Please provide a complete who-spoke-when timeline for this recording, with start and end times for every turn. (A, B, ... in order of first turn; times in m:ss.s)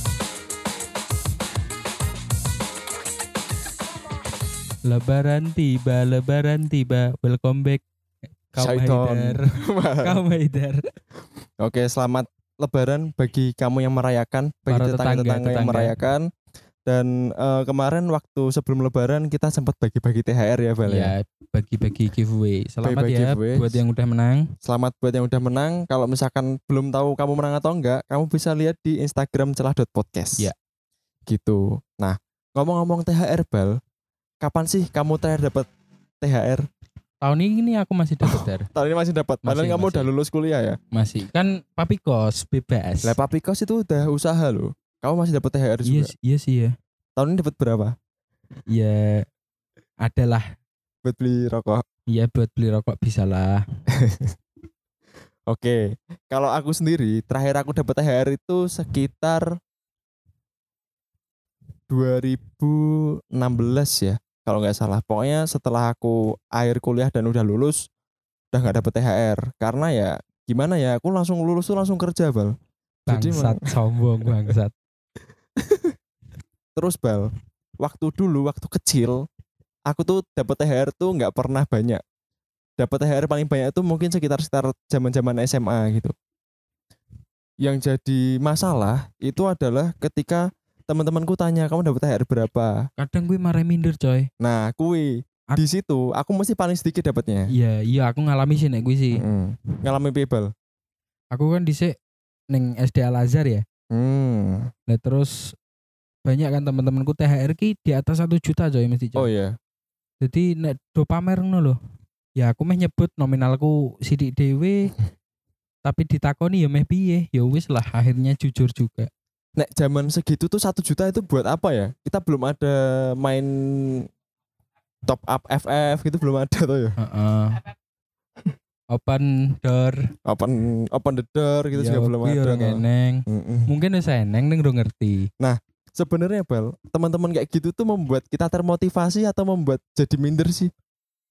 0:04.8-0:07.8 A
0:08.5-0:09.5 A
0:08.6-0:10.2 B
0:10.0-0:10.9 A
0:11.6-0:16.2 B
0:14.7-0:15.9 A
0:16.9-0:21.1 B
0:20.9-0:24.5 A
0:22.8-0:23.8 B
0:24.6-0:30.5 B
0:31.3-0:33.8 B
0:34.4-0:35.7 B
0:36.2-0:36.6 B
0:37.2-0:38.7 A
0:38.2-0:40.8 B
0:39.4-0:40.1 A
0:40.9-0:43.2 A
0:43.0-0:46.1 B
0:45.8-0:46.7 A
0:47.2-0:47.9 B
0:48.7-0:49.2 A
0:50.0-0:50.4 A
0:51.0-0:51.8 B
0:52.1-0:53.6 A
0:54.0-0:54.3 B
0:55.5-0:55.8 B
0:56.3-0:59.4 B
1:01.9-1:07.8 B
1:08.5-1:12.5 B
1:13.1-1:14.7 A
1:13.1-1:13.6 B
1:15.6-1:15.9 B
1:16.8-1:17.3 B
1:17.8-1:19.2 B
1:19.9-1:22.0 B
1:22.8-1:26.1 B
1:27.6-1:32.8 B
1:33.0-1:34.3 A
1:34.4-1:37.5 B
1:37.5-1:39.2 A
1:39.1-1:40.5 B
1:41.3-1:41.9 A
1:42.5-1:43.6 A
1:43.9-1:44.7 B
1:44.9-1:45.5 A
1:46.2-1:49.3 A
1:49.2-1:49.5 B
1:50.2-1:51.8 A
1:52.4-1:54.9 A
1:55.8-1:59.1 A
1:59.6-2:04.0 B
2:05.1-2:06.9 B
2:07.0-2:07.6 A
2:08.9-2:10.0 A
2:10.2-2:13.7 B
2:11.8-2:15.3 A
2:15.4-2:20.7 B